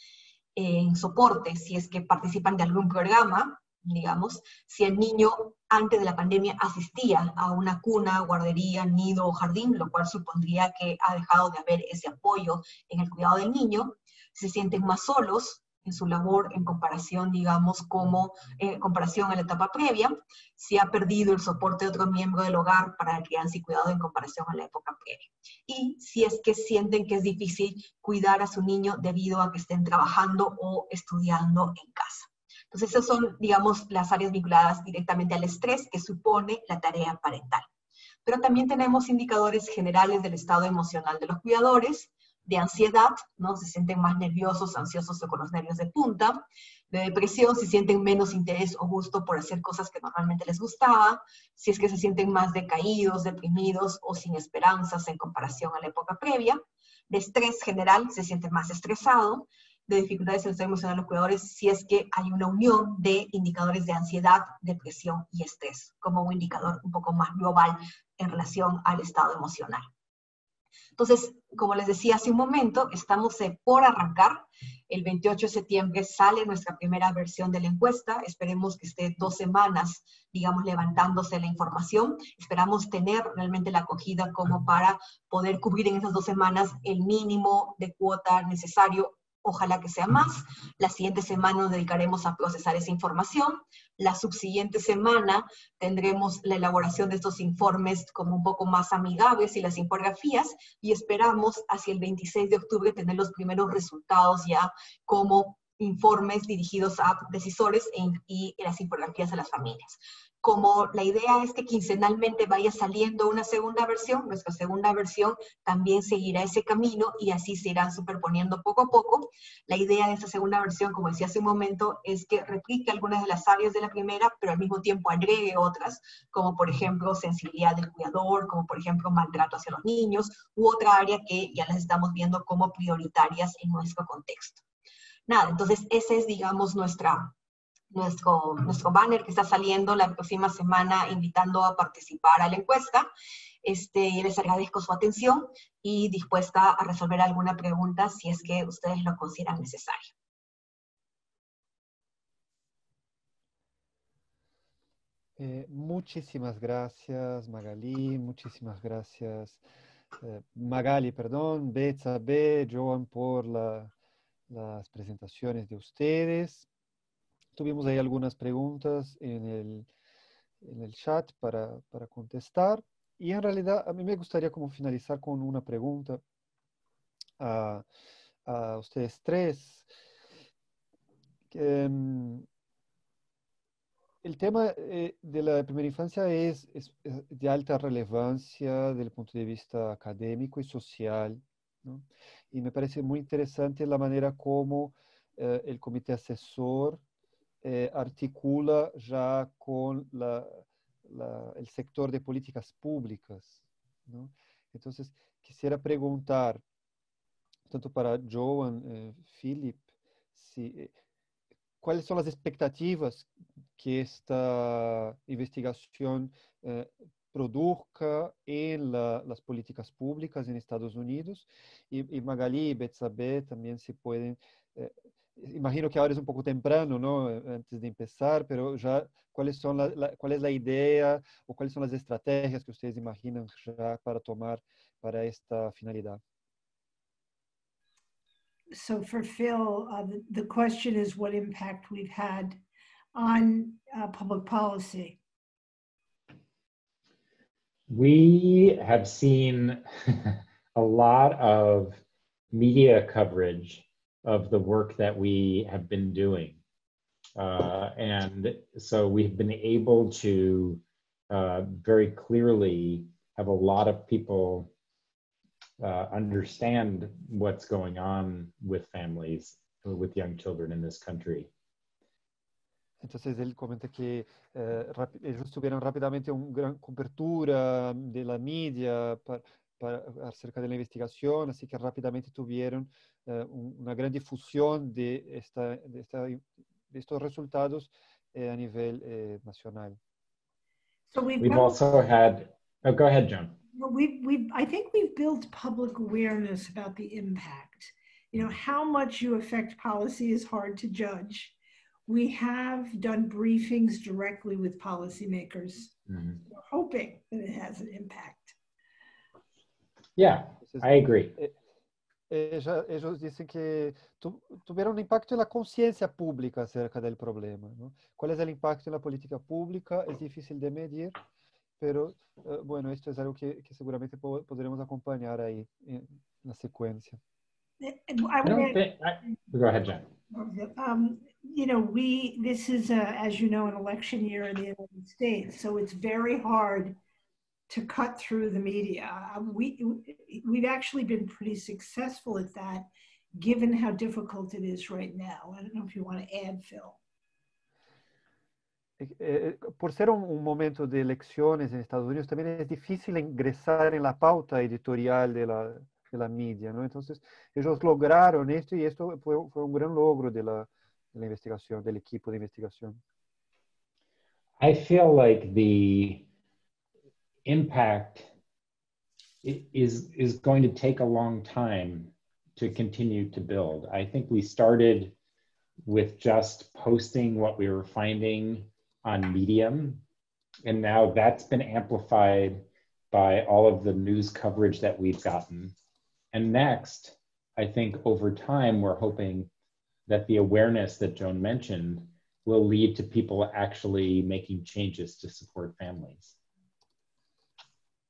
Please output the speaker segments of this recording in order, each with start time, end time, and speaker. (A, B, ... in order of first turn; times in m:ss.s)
0:00.6-0:37.6 A
0:38.2-1:09.9 A
1:11.0-2:14.6 A
2:15.3-2:17.3 A
2:17.9-2:23.1 A
2:23.6-2:30.1 A
2:35.4-2:39.6 B
2:40.2-2:43.9 B
2:44.5-2:46.7 B
2:47.5-2:49.9 B
2:50.6-2:56.2 B
2:57.4-2:57.8 B
2:58.4-2:59.9 B
3:01.5-3:02.4 B
3:04.2-3:17.0 B
3:17.6-3:26.6 B
3:27.7-3:29.8 B
3:30.3-3:30.9 B
3:31.8-3:56.2 B
3:58.7-4:02.6 C
4:03.1-4:05.2 C
4:07.9-4:12.0 D
4:12.5-4:16.6 D
4:17.4-4:24.7 D
4:25.8-4:31.5 D
4:33.0-4:50.0 B
4:51.1-4:51.8 C
4:51.4-4:53.6 D
4:53.7-5:01.6 C
5:02.1-5:05.9 C
5:06.1-5:06.4 D
5:06.5-5:08.6 C
5:10.2-5:11.3 D
5:10.6-5:11.6 B
5:12.3-5:21.2 B
5:21.8-5:27.2 B
5:27.8-5:28.8 C
5:28.4-5:30.1 D
5:30.3-5:37.0 C
5:37.7-5:47.0 C
5:49.0-6:03.0 B
6:04.6-6:06.3 D
6:07.4-6:08.3 D
6:09.4-6:15.1 D
6:15.8-6:20.0 D
6:20.6-6:25.7 D
6:26.3-6:29.5 D
6:30.1-6:36.4 D